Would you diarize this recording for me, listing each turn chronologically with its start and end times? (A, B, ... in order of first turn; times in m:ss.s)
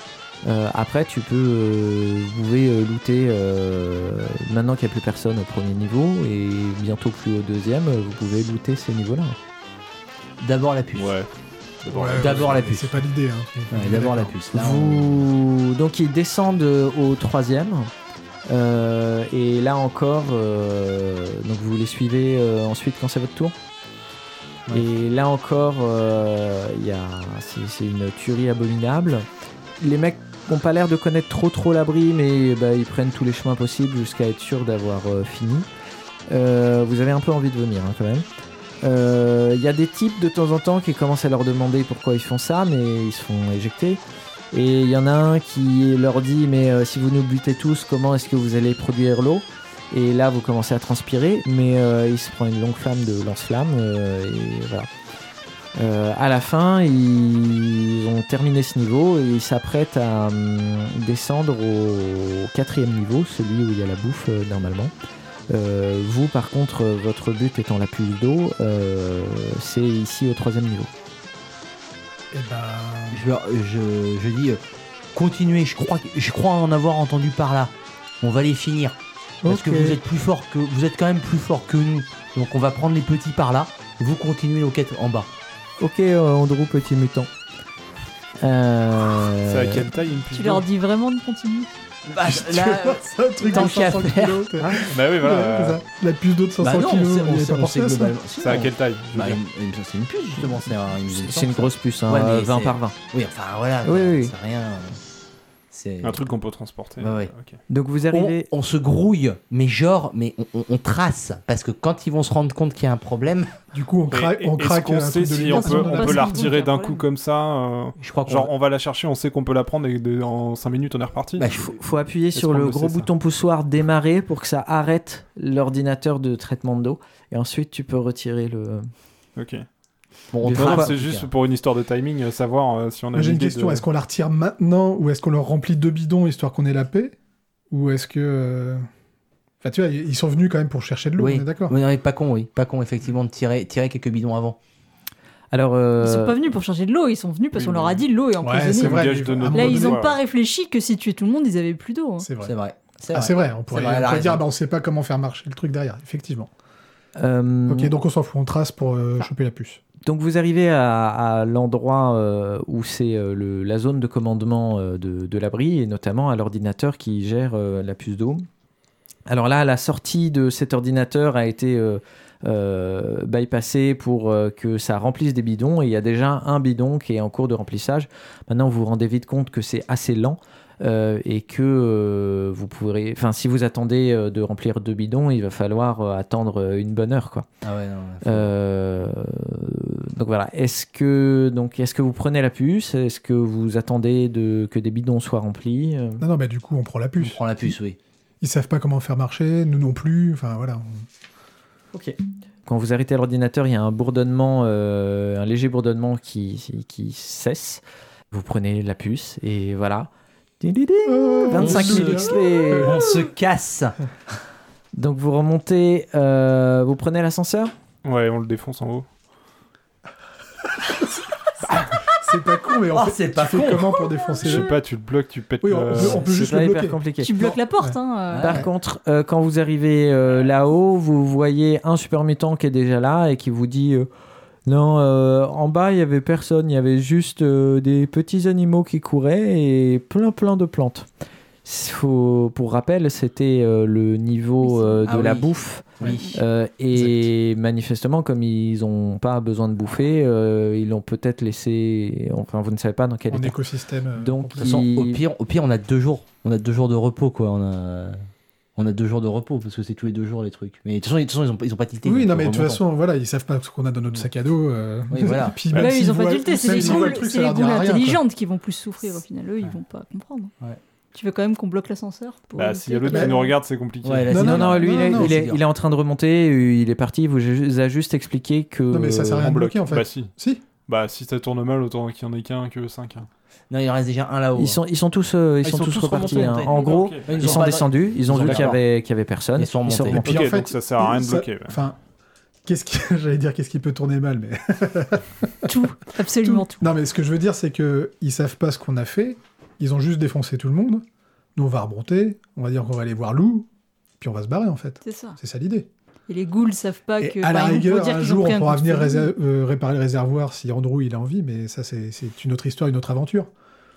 0:00.4-0:09.4 A
0:10.4-0:11.1 B
0:11.0-0:11.3 C
0:11.8-0:12.7 C
0:11.9-0:14.4 D
0:12.2-0:12.9 B
0:13.7-0:15.2 B
0:14.5-0:17.9 A
0:18.5-0:23.6 A
0:24.7-0:29.3 A
0:29.8-0:35.7 A
0:36.3-0:38.3 A
0:38.8-0:44.0 A
0:44.5-0:54.9 A
0:55.8-1:04.9 A
1:05.5-1:10.9 A
1:12.3-1:13.3 D
1:13.1-1:14.6 B
1:15.1-1:25.3 B
1:19.5-1:20.0 A
1:25.8-1:27.3 A
1:28.4-1:29.9 A
1:29.4-1:30.6 C
1:30.3-1:31.7 E
1:32.1-1:34.9 B
1:32.2-1:38.2 D
1:34.8-1:35.8 C
1:36.6-1:45.0 B
1:38.4-1:39.4 C
1:41.1-1:43.0 A
1:43.8-1:44.3 A
1:45.7-1:46.3 B
1:46.0-1:47.6 C
1:47.0-1:47.3 B
1:47.7-1:48.5 A
1:48.1-1:53.6 B
1:53.7-1:56.6 D
1:54.1-2:01.5 C
1:55.5-1:57.0 E
1:58.0-1:58.5 B
2:01.4-2:01.8 B
2:01.6-2:08.9 A
2:02.4-2:03.1 C
2:09.4-2:09.6 C
2:10.3-2:11.3 B
2:10.4-2:10.9 A
2:10.4-2:13.8 C
2:13.1-2:17.2 D
2:17.7-2:18.8 D
2:19.6-2:21.8 D
2:21.2-2:24.6 B
2:25.5-2:26.4 A
2:26.0-2:32.3 E
2:27.6-2:28.0 C
2:28.4-2:30.1 D
2:28.8-2:30.2 C
2:32.2-2:32.6 D
2:32.4-2:34.4 B
2:33.1-2:36.5 D
2:37.2-2:37.9 A
2:37.7-2:39.8 D
2:40.0-2:48.5 A
2:49.3-3:07.5 A
3:07.6-3:08.5 B
3:08.2-3:16.2 A
3:16.2-3:17.7 D
3:17.2-3:18.0 B
3:18.4-3:21.1 D
3:21.9-3:30.1 A
3:30.6-3:33.0 A
3:31.1-3:32.9 D
3:31.5-3:34.0 B
3:35.0-3:37.7 A
3:38.0-3:39.1 C
3:42.2-3:44.7 D
3:42.9-3:44.0 B
3:44.4-3:46.3 C
3:45.6-3:48.0 D
3:46.2-3:47.3 A
3:47.2-3:48.6 E
3:48.3-3:48.7 B
3:48.4-3:54.1 A
3:54.7-4:01.1 A
4:01.6-4:13.6 A
4:04.6-4:05.1 E
4:05.1-4:06.4 B
4:06.0-4:06.4 E
4:06.9-4:07.3 D
4:13.3-4:14.8 D
4:14.2-4:15.2 A
4:14.6-4:18.2 B
4:18.8-4:22.8 B
4:22.0-4:28.2 D
4:25.1-4:25.6 B
4:25.7-4:30.5 E
4:31.1-4:33.6 E
4:32.6-4:34.4 C
4:33.1-4:33.4 D
4:34.0-4:35.6 B
4:34.3-4:35.4 D
4:34.4-4:39.5 A
4:38.9-4:40.6 D
4:39.4-4:43.3 C
4:43.7-4:44.8 B
4:44.6-4:50.4 A
4:45.7-4:48.8 B
4:46.1-4:47.6 C
4:48.4-4:48.7 C
4:49.6-4:50.2 B
4:50.1-4:51.8 C
4:50.1-4:52.0 D
4:52.6-4:55.7 D
4:55.7-4:56.9 E
4:56.4-5:01.0 D
5:01.6-5:03.7 D
5:04.2-5:05.9 D
5:05.0-5:05.4 E
5:06.3-5:09.3 E
5:07.2-5:13.5 D